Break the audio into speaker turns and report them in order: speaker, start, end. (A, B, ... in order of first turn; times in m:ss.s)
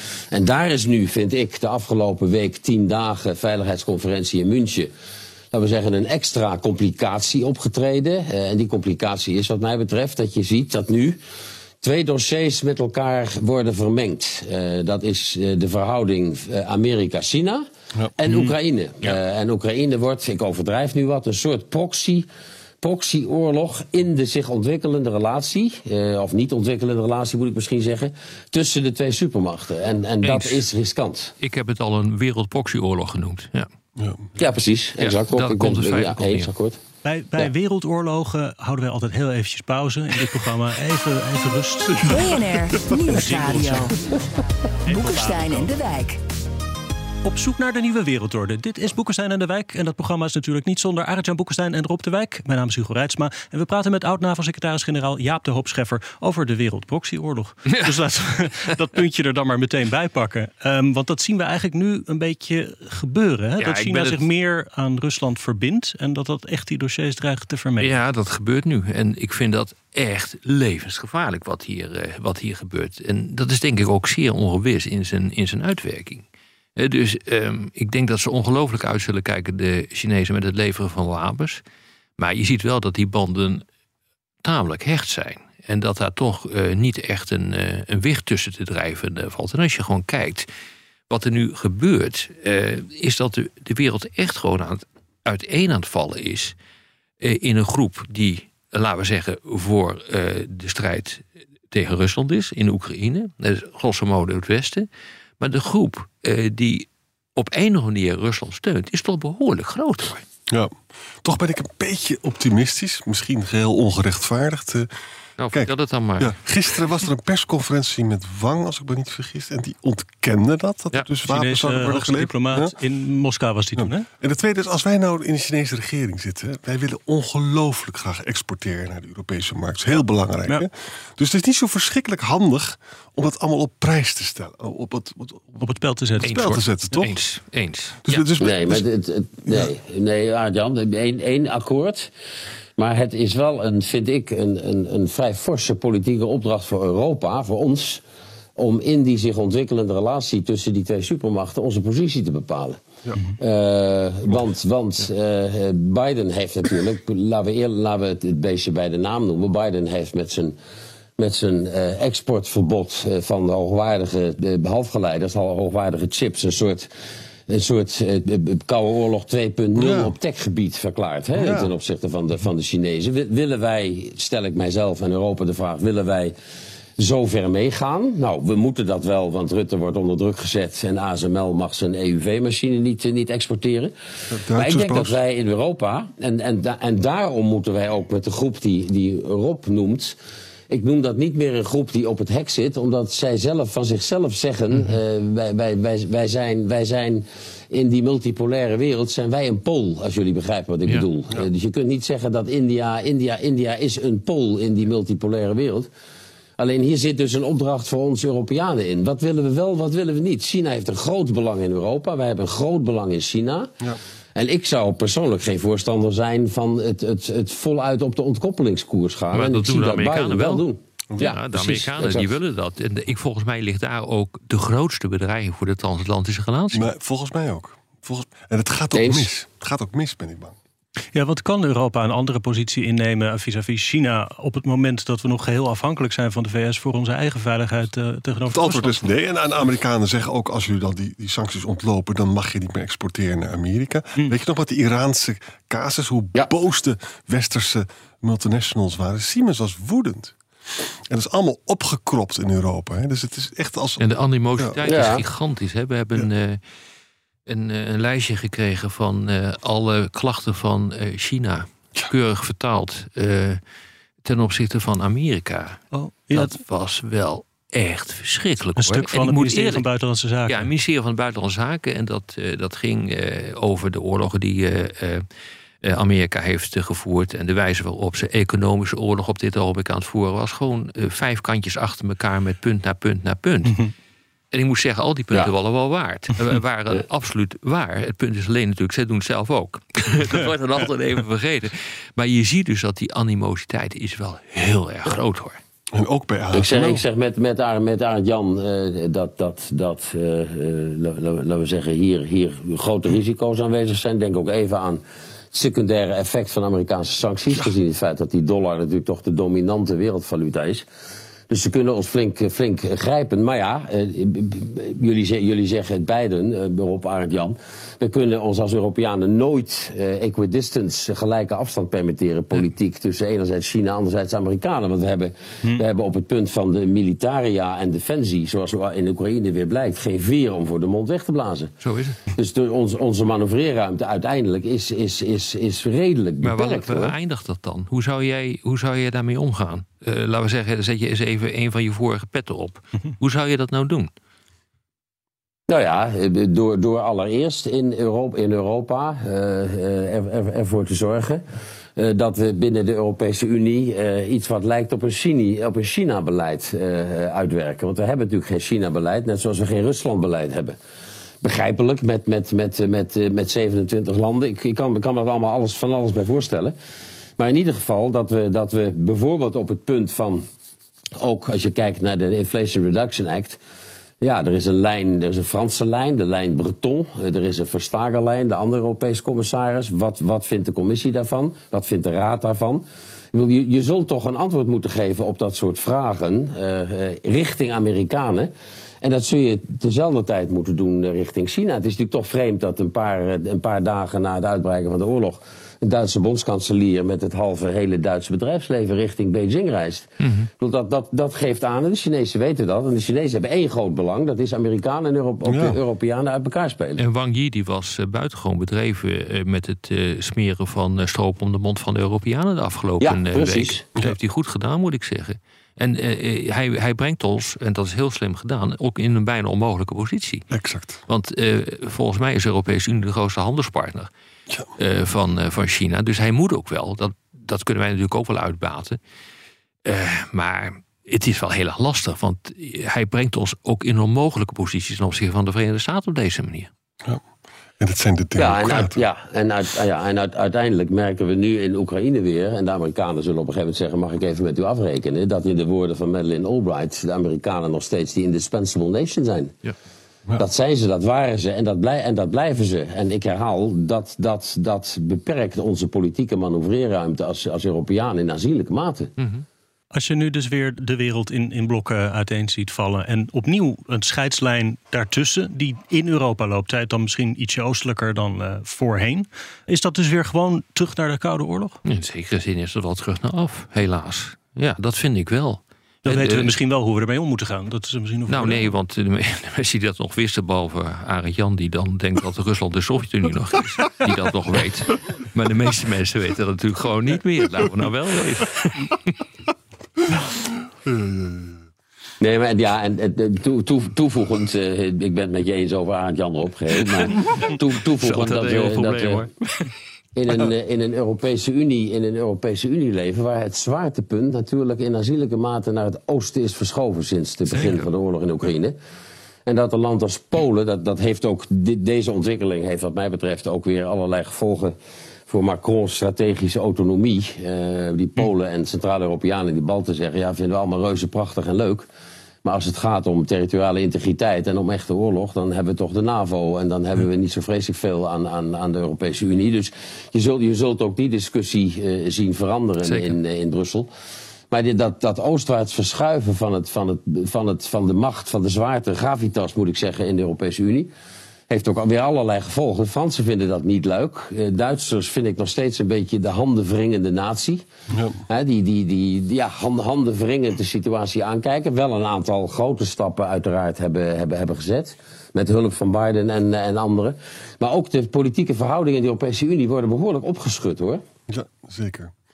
0:00.3-0:04.9 A
0:05.5-0:11.2 A
0:11.8-0:17.6 A
0:18.2-0:22.3 A
0:22.8-0:31.3 A
0:30.2-0:30.6 B
0:31.4-0:33.7 B
0:34.0-0:34.2 C
0:34.4-0:36.8 A
0:35.0-0:36.5 B
0:37.0-0:42.3 D
0:42.0-0:44.0 E
0:43.0-0:43.9 D
0:44.8-0:45.7 D
0:44.8-0:46.2 E
0:47.2-1:07.9 D
0:57.6-0:58.0 B
1:03.6-1:04.2 B
1:07.8-1:16.2 B
1:16.8-1:21.6 B
1:22.2-1:23.6 B
1:24.4-1:30.5 B
1:31.1-1:36.5 B
1:37.2-1:44.9 B
1:45.4-1:50.2 B
1:50.5-1:54.9 C
1:55.4-1:56.4 B
1:55.5-2:02.7 C
2:01.2-2:04.1 D
2:03.8-2:15.6 C
2:15.6-2:16.3 D
2:16.2-2:17.1 C
2:16.2-2:18.3 B
2:18.0-2:18.8 C
2:18.4-2:22.1 A
2:22.8-2:28.0 A
2:28.6-2:32.8 A
2:33.4-2:40.6 A
2:41.2-2:46.9 A
2:47.5-2:56.3 A
2:49.8-2:50.1 C
2:51.4-2:51.7 C
2:57.0-3:03.9 A
3:04.3-3:05.2 C
3:04.5-3:10.2 A
3:10.7-3:25.9 A
3:26.6-3:33.7 A
3:34.4-3:42.3 A
3:39.3-3:40.6 B
3:41.2-3:46.9 B
3:46.7-3:50.6 C
3:48.9-3:49.3 A
3:51.1-3:59.0 D
3:58.5-4:10.4 C
4:11.1-4:14.0 C
4:14.0-4:16.6 B
4:14.8-4:15.2 A
4:17.4-4:23.6 B
4:24.2-4:29.9 B
4:25.9-4:26.5 D
4:28.8-4:30.7 D
4:30.4-4:35.2 B
4:35.8-4:43.9 B
4:44.5-4:55.6 B
4:55.9-4:57.0 C
4:56.5-5:05.0 A
5:05.5-5:10.8 A
5:11.5-5:31.7 A
5:31.8-5:32.2 B
5:32.3-5:37.1 A
5:36.4-5:44.1 B
5:45.7-5:51.4 A
5:52.0-6:00.8 A
6:01.4-6:06.8 A
6:07.4-6:10.4 A
6:11.2-6:13.6 A
6:14.2-6:28.5 A
6:29.0-6:40.1 A
6:40.2-6:40.5 B
6:40.6-6:47.0 A
6:45.4-6:45.8 C
6:47.0-7:00.5 B
6:53.0-6:53.8 A
7:00.5-7:01.0 C
7:01.1-7:04.1 B
7:04.8-7:09.0 B
7:09.8-7:16.7 B
7:17.8-7:19.0 C
7:18.4-7:29.5 A
7:30.4-7:39.1 A
7:39.2-7:39.4 B
7:39.9-7:51.8 D
7:51.8-7:56.6 B
7:56.0-7:58.7 D
7:58.3-8:09.2 B
8:10.1-8:11.6 C
8:12.2-8:19.3 A
8:17.1-8:19.7 B
8:20.1-8:28.8 A
8:27.5-8:27.8 B
8:29.4-8:34.8 A
8:35.3-8:41.9 A
8:42.4-8:53.9 A
8:52.8-8:53.2 B
8:54.5-9:00.9 A
9:01.5-9:07.6 A
9:07.9-9:08.2 C
9:08.3-9:21.0 A
9:21.3-9:22.1 C